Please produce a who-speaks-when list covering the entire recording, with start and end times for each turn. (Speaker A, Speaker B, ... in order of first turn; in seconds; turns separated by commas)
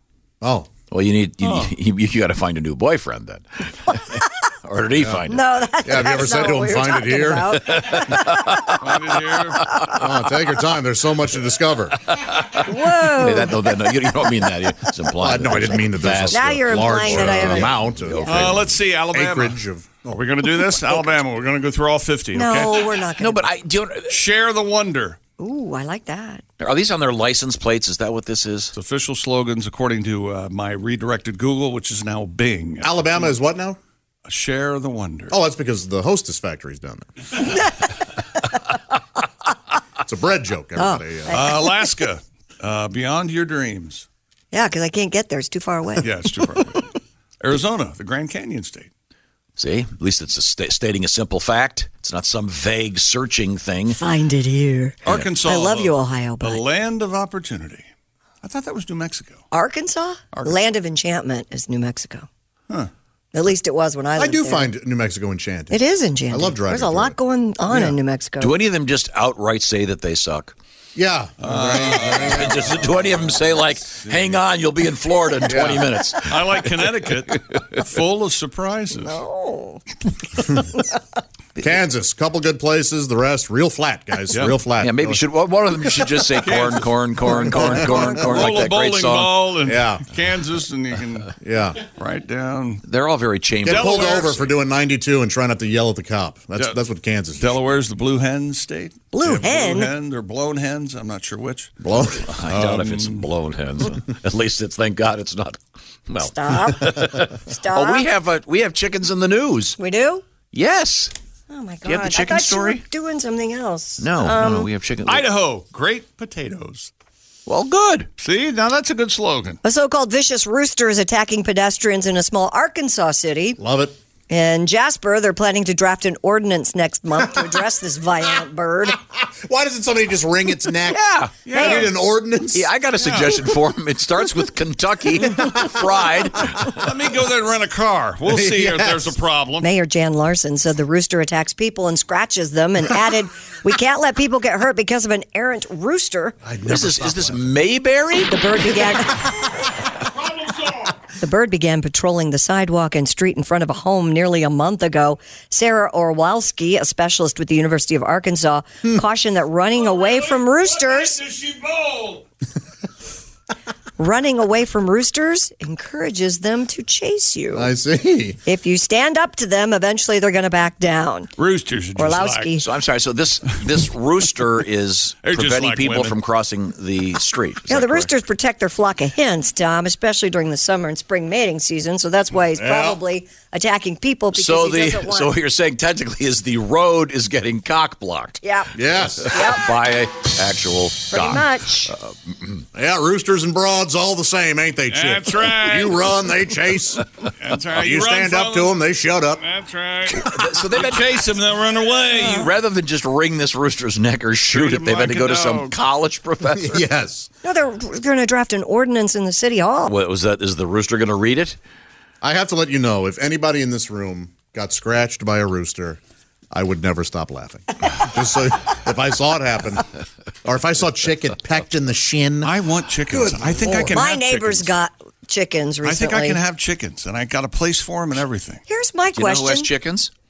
Speaker A: 0.4-0.7, Speaker B: 0.9-5.4, Speaker C: 1.4-1.7, Speaker A: 5.0-5.2, Speaker D: 5.3-8.8, Speaker A: 5.8-7.4, Speaker B: 7.6-8.7, Speaker C: 8.8-9.7, Speaker B: 9.6-10.0, Speaker A: 10.0-12.0, Speaker B: 12.2-18.8, Speaker D: 12.6-14.0, Speaker A: 15.2-20.2, Speaker D: 16.3-18.4, Speaker C: 18.2-19.6, Speaker C: 20.1-22.9, Speaker D: 22.3-23.5, Speaker B: 23.2-24.1, Speaker C: 24.1-25.2, Speaker D: 25.4-26.4, Speaker B: 26.6-28.7, Speaker C: 28.7-33.3, Speaker A: 32.8-33.8, Speaker C: 34.3-35.3, Speaker A: 35.3-37.0, Speaker D: 37.5-37.8, Speaker A: 40.0-41.3, Speaker D: 40.8-41.9, Speaker C: 41.3-44.0, Speaker D: 44.5-46.8, Speaker C: 46.0-46.9, Speaker C: 47.4-48.9, Speaker B: 49.6-54.0, Speaker D: 53.9-56.6, Speaker C: 55.0-57.9, Speaker C: 58.4-59.4, Speaker D: 59.5-62.3, Speaker C: 60.3-60.6, Speaker D: 63.3-64.7, Speaker A: 64.2-67.2, Speaker D: 65.7-68.5, Speaker A: 67.7-68.0, Speaker B: 68.4-70.5, Speaker A: 70.9-72.5, Speaker C: 71.4-73.4, Speaker B: 72.1-76.7, Speaker C: 73.9-74.4, Speaker A: 75.5-75.9, Speaker C: 76.2-79.2, Speaker B: 77.2-77.8, Speaker D: 78.9-81.0, Speaker A: 81.6-85.2, Speaker C: 84.3-84.6, Speaker B: 84.8-89.5, Speaker C: 86.3-92.8, Speaker D: 87.2-88.4, Speaker A: 89.6-90.0, Speaker A: 91.4-91.8, Speaker B: 92.8-94.4, Speaker A: 93.6-97.5, Speaker C: 93.7-94.5, Speaker C: 97.4-101.7, Speaker D: 99.1-99.9, Speaker A: 101.8-102.2, Speaker B: 102.0-109.8, Speaker C: 102.4-103.3, Speaker D: 106.2-108.1, Speaker D: 109.8-110.2, Speaker B: 110.5-111.1, Speaker D: 111.5-114.7, Speaker B: 111.8-112.8, Speaker B: 114.0-115.2, Speaker C: 115.0-116.9, Speaker B: 117.5-118.1, Speaker C: 118.2-119.6, Speaker D: 119.6-123.6, Speaker A: 123.6-124.0, Speaker D: 124.3-129.0, Speaker A: 129.2-131.0, Speaker B: 130.9-132.0, Speaker C: 131.4-131.8, Speaker D: 131.5-131.9, Speaker A: 131.7-132.7, Speaker B: 132.5-136.8, Speaker C: 133.0-133.3, Speaker C: 136.7-139.7, Speaker A: 138.3-139.1, Speaker D: 139.6-146.4, Speaker A: 146.4-147.4, Speaker B: 146.6-148.8, Speaker D: 148.3-149.6, Speaker C: 150.4-150.7, Speaker D: 151.2-161.2, Speaker C: 159.8-162.2, Speaker D: 164.0-167.7, Speaker A: 167.5-168.4, Speaker D: 168.4-171.3, Speaker C: 171.4-172.5, Speaker D: 171.9-172.6, Speaker B: 172.6-178.1, Speaker C: 175.2-176.2, Speaker D: 177.7-185.3, Speaker A: 182.5-183.0, Speaker B: 184.3-188.4, Speaker D: 188.4-188.7, Speaker A: 188.7-189.3, Speaker B: 189.2-192.6, Speaker D: 189.2-189.7, Speaker D: 191.1-191.9, Speaker A: 192.7-197.0, Speaker C: 194.9-196.0, Speaker C: 197.4-198.8, Speaker A: 197.7-199.4, Speaker C: 199.3-202.4, Speaker B: 200.1-201.3, Speaker B: 202.1-206.8, Speaker C: 204.5-205.7, Speaker A: 206.5-207.3, Speaker D: 207.4-209.9, Speaker B: 209.8-211.6, Speaker A: 212.2-216.0, Speaker A: 216.5-219.8, Speaker A: 220.4-222.5, Speaker C: 222.4-224.8, Speaker A: 223.1-224.0, Speaker D: 223.9-226.4, Speaker C: 225.8-228.6, Speaker D: 228.7-229.7, Speaker B: 229.2-230.1